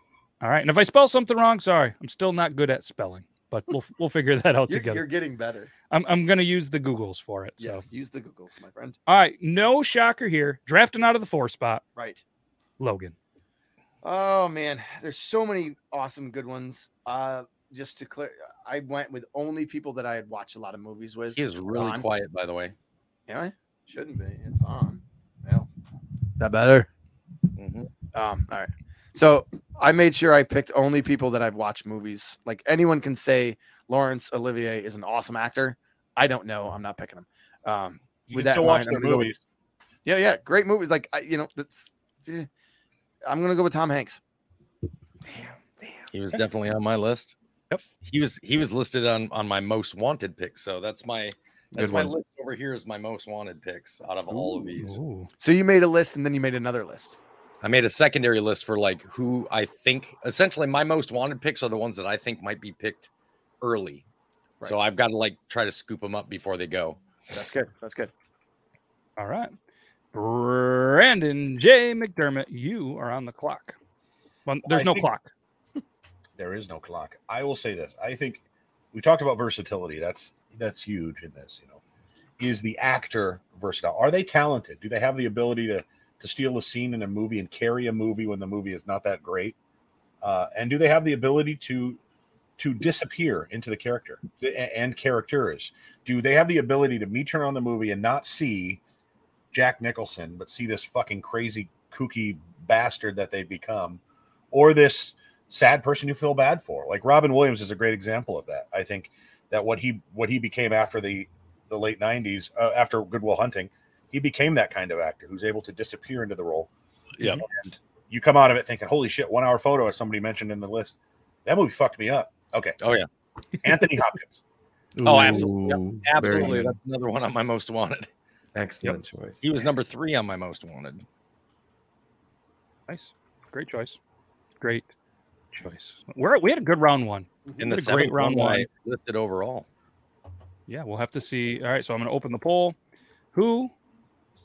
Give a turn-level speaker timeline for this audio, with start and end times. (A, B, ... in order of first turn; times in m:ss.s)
0:00.4-0:05.0 A
0:04.7-0:05.7 B
0:05.9-0:07.8 A
0:07.6-0:09.0 B
0:09.1-0:11.8 A
0:12.0-0:12.2 B
0:12.8-0:13.2 A
0:14.0-0:22.0 B
0:21.3-0:22.8 C
0:23.3-0:25.7 B
0:26.4-0:26.9 B
0:27.6-0:27.9 C
0:28.1-0:39.3 B
0:38.3-0:39.4 D
0:40.0-0:42.5 B
0:43.3-0:44.2 B
0:45.3-0:46.1 E
0:46.1-0:47.3 C
0:48.0-0:55.0 C
0:51.7-0:52.2 E
0:54.3-0:54.7 B
0:54.8-0:55.3 A
0:55.4-0:57.2 B
0:57.6-1:03.1 C
1:03.6-1:04.0 C
1:04.6-1:07.0 C
1:07.3-1:08.1 B
1:09.2-1:09.5 A
1:10.1-1:13.8 A
1:14.5-1:15.3 A
1:14.7-1:15.1 D
1:16.4-1:21.8 D
1:22.4-1:29.6 D
1:30.2-1:32.0 D
1:32.6-1:38.8 D
1:39.5-1:44.0 D
1:44.5-1:56.7 D
1:57.2-1:57.4 C
1:57.5-2:02.8 D
2:02.8-2:03.1 C
2:03.6-2:04.4 D
2:05.0-2:06.8 E
2:05.0-2:08.1 C
2:08.6-2:09.7 E
2:09.4-2:11.0 C
2:12.9-2:14.0 A
2:14.6-2:14.9 A
2:15.5-2:18.7 A
2:17.6-2:19.7 C
2:20.7-2:22.8 A
2:23.3-2:23.7 A